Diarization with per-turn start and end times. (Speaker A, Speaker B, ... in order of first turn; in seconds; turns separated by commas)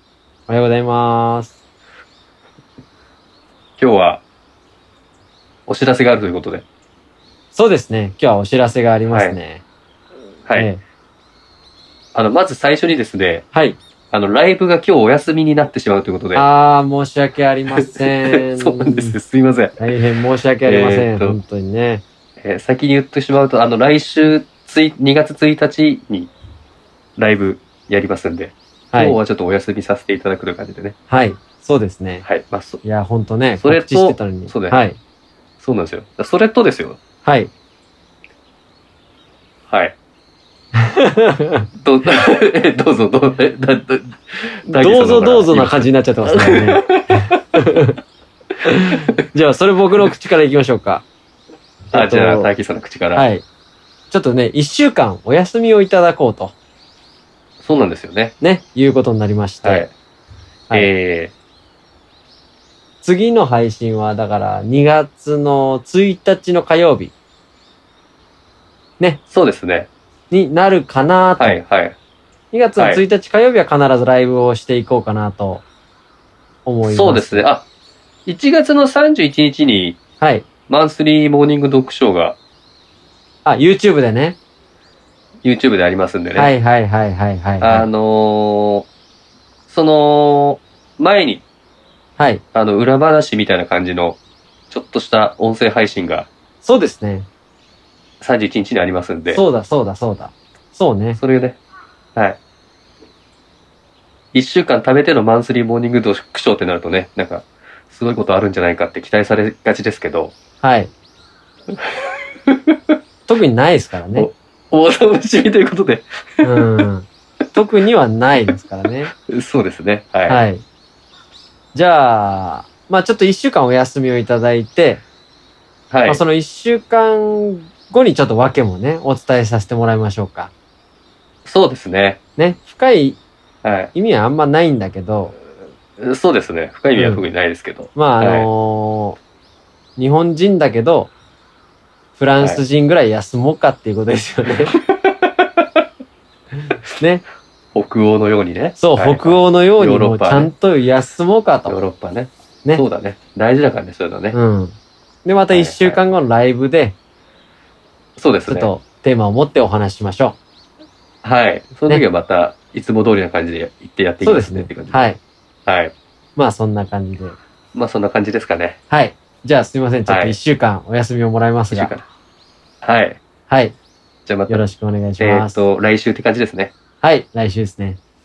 Speaker A: 0.5-1.6, Speaker B: 3.8-4.2, Speaker B: 5.7-6.7, Speaker A: 7.5-9.6, Speaker B: 9.1-9.4, Speaker A: 10.5-10.8, Speaker B: 12.1-13.5, Speaker A: 13.5-13.8, Speaker B: 14.1-16.5, Speaker A: 16.3-19.2, Speaker B: 17.9-19.9, Speaker A: 19.8-22.0, Speaker B: 20.6-21.4, Speaker B: 22.4-26.3, Speaker B: 27.2-31.0, Speaker A: 28.9-29.2, Speaker A: 31.1-32.2, Speaker B: 32.2-32.8, Speaker A: 32.8-35.0, Speaker B: 33.6-34.8, Speaker B: 35.6-37.0, Speaker A: 37.2-37.5, Speaker B: 39.7-40.0, Speaker A: 40.9-41.7, Speaker B: 41.8-47.1, Speaker A: 44.7-48.0, Speaker A: 49.3-51.0, Speaker A: 51.9-52.5, Speaker B: 51.9-53.3, Speaker A: 53.1-53.5, Speaker A: 54.1-56.5, Speaker B: 57.6-58.4, Speaker A: 58.4-59.9, Speaker B: 59.6-59.9, Speaker B: 60.7-61.3, Speaker A: 63.0-67.1, Speaker B: 69.3-69.9, Speaker A: 70.3-71.6, Speaker B: 71.4-72.0, Speaker A: 72.5-75.6, Speaker B: 72.8-73.0, Speaker A: 76.7-77.5, Speaker B: 76.8-77.7, Speaker B: 78.3-80.0, Speaker A: 80.2-80.5, Speaker B: 80.7-82.4, Speaker A: 83.5-84.4, Speaker B: 85.4-86.5, Speaker A: 86.4-87.9, Speaker B: 87.6-88.9, Speaker B: 89.7-91.4, Speaker A: 92.2-92.4, Speaker B: 92.5-94.2, Speaker B: 94.7-96.3, Speaker A: 96.6-97.3, Speaker B: 98.2-99.4, Speaker A: 99.3-101.2, Speaker B: 101.2-101.6, Speaker B: 104.3-110.3, Speaker A: 110.6-110.9, Speaker A: 113.3-114.3, Speaker B: 114.1-116.5, Speaker A: 116.4-119.1, Speaker B: 119.2-120.4, Speaker A: 120.3-120.6, Speaker A: 121.7-125.0, Speaker B: 125.9-126.2, Speaker A: 126.1-130.5, Speaker B: 131.4-132.2, Speaker A: 132.4-133.2, Speaker B: 133.6-133.9, Speaker A: 133.9-135.3, Speaker B: 136.0-138.5, Speaker A: 136.9-137.3, Speaker A: 137.9-139.2, Speaker A: 140.0-141.1, Speaker A: 142.2-144.7, Speaker B: 147.8-150.5, Speaker A: 148.8-151.8, Speaker B: 151.7-154.4, Speaker A: 154.3-156.9, Speaker B: 155.5-156.0, Speaker B: 158.2-158.7, Speaker A: 158.5-160.4, Speaker B: 161.2-165.0, Speaker A: 164.2-165.2, Speaker B: 165.7-165.9, Speaker A: 166.4-167.4, Speaker B: 167.7-168.8, Speaker A: 168.9-171.9, Speaker B: 170.1-170.4, Speaker B: 171.7-172.1, Speaker B: 172.8-173.2, Speaker A: 173.5-173.8, Speaker B: 174.3-174.6, Speaker A: 174.5-175.6, Speaker B: 175.2-176.7, Speaker A: 177.0-178.0